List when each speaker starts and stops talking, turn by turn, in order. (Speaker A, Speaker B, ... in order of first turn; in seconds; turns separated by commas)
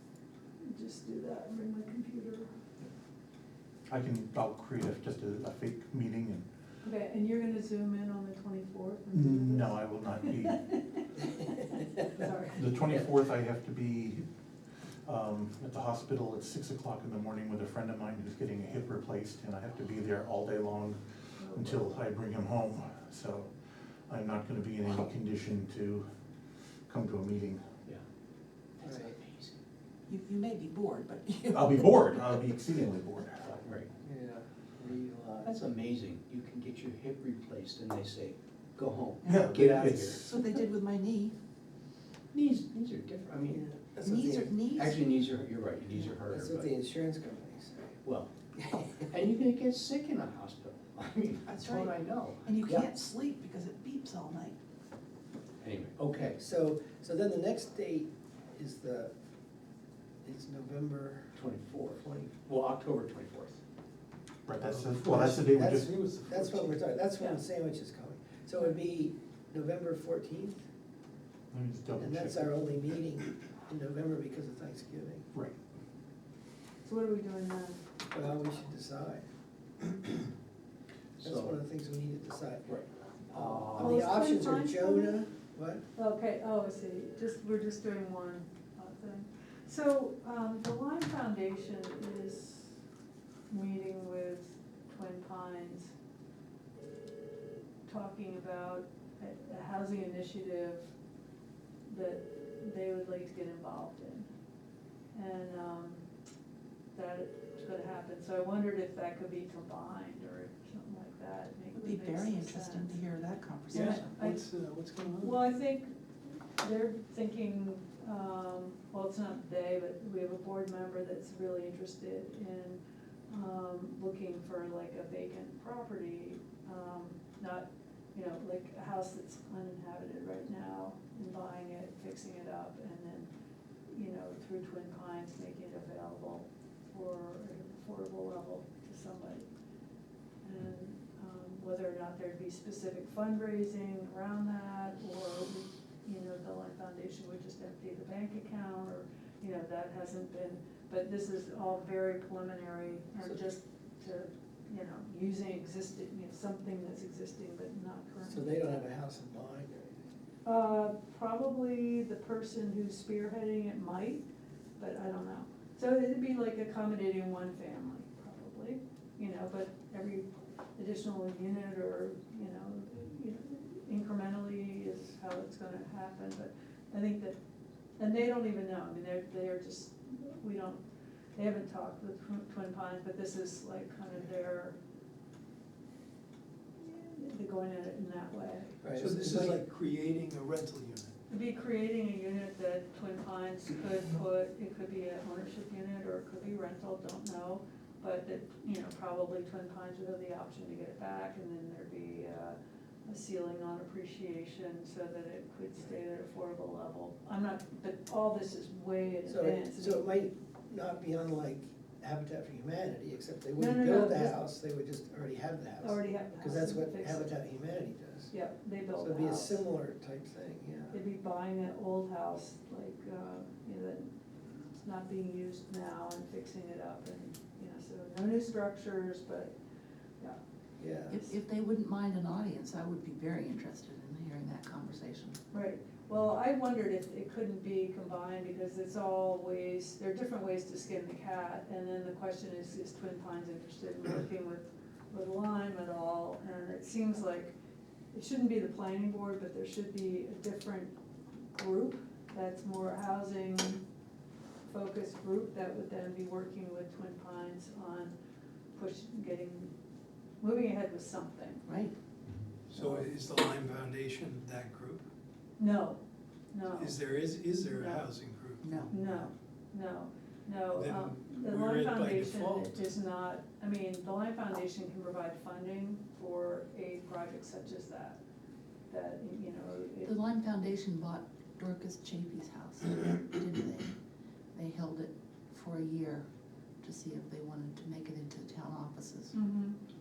Speaker A: 0.6-2.5, Speaker B: 3.9-6.5, Speaker A: 6.8-12.7, Speaker B: 9.1-10.6, Speaker B: 12.5-14.2, Speaker B: 15.1-23.5, Speaker A: 21.4-21.9, Speaker B: 24.1-26.1, Speaker B: 26.9-27.6, Speaker C: 28.8-29.6, Speaker D: 28.8-29.1, Speaker E: 30.1-32.4, Speaker B: 31.5-33.6, Speaker C: 33.4-33.9, Speaker D: 34.0-35.6, Speaker C: 35.4-40.3, Speaker E: 39.2-39.5, Speaker B: 39.3-40.3, Speaker E: 40.1-41.3, Speaker C: 42.3-43.6, Speaker D: 43.5-44.6, Speaker E: 44.0-45.0, Speaker C: 44.7-46.7, Speaker D: 46.3-48.0, Speaker C: 48.0-48.3, Speaker D: 48.6-48.9, Speaker C: 49.0-52.9, Speaker E: 51.5-54.5, Speaker C: 55.6-56.4, Speaker D: 56.3-59.1, Speaker D: 60.2-61.3, Speaker C: 61.3-63.6, Speaker D: 62.0-62.3, Speaker B: 64.5-66.4, Speaker F: 64.6-65.4, Speaker D: 65.0-70.6, Speaker F: 66.1-66.7, Speaker B: 71.5-72.7, Speaker D: 72.0-75.3, Speaker A: 76.8-77.8, Speaker D: 78.1-79.2, Speaker C: 81.2-81.6, Speaker D: 81.2-82.7, Speaker C: 82.7-84.1, Speaker D: 83.3-85.8, Speaker A: 83.8-85.2, Speaker A: 86.0-92.8, Speaker A: 93.5-95.9, Speaker A: 97.9-100.9, Speaker A: 101.9-104.3, Speaker A: 105.1-106.0, Speaker A: 107.0-113.0, Speaker E: 111.7-114.2, Speaker A: 113.7-114.4, Speaker F: 113.7-115.4, Speaker A: 115.2-115.9, Speaker A: 116.6-133.3, Speaker A: 133.9-139.5, Speaker A: 140.4-158.5, Speaker D: 158.3-160.0, Speaker A: 160.4-164.2, Speaker A: 164.8-177.4, Speaker A: 178.0-180.8, Speaker A: 181.4-184.8, Speaker A: 186.8-188.8, Speaker D: 188.8-189.6, Speaker F: 189.0-191.1, Speaker A: 191.3-210.0, Speaker D: 209.3-218.3, Speaker A: 213.6-214.4, Speaker A: 215.8-217.3, Speaker A: 218.3-219.6, Speaker D: 219.0-221.0, Speaker A: 220.9-224.1, Speaker A: 224.8-229.5, Speaker D: 230.8-231.3, Speaker E: 231.1-235.4, Speaker A: 235.5-247.5, Speaker A: 248.1-250.9, Speaker A: 251.5-253.8, Speaker A: 254.7-258.1, Speaker A: 258.7-259.7, Speaker A: 260.4-261.6, Speaker E: 261.7-261.9, Speaker F: 262.7-265.0, Speaker A: 265.6-266.0, Speaker A: 266.5-266.9, Speaker F: 266.7-269.1, Speaker A: 267.7-268.1, Speaker E: 268.6-268.9, Speaker A: 268.9-278.2, Speaker F: 270.7-272.9, Speaker A: 278.9-280.1, Speaker E: 280.1-283.9, Speaker E: 284.6-286.3, Speaker E: 286.8-289.3, Speaker A: 289.3-289.8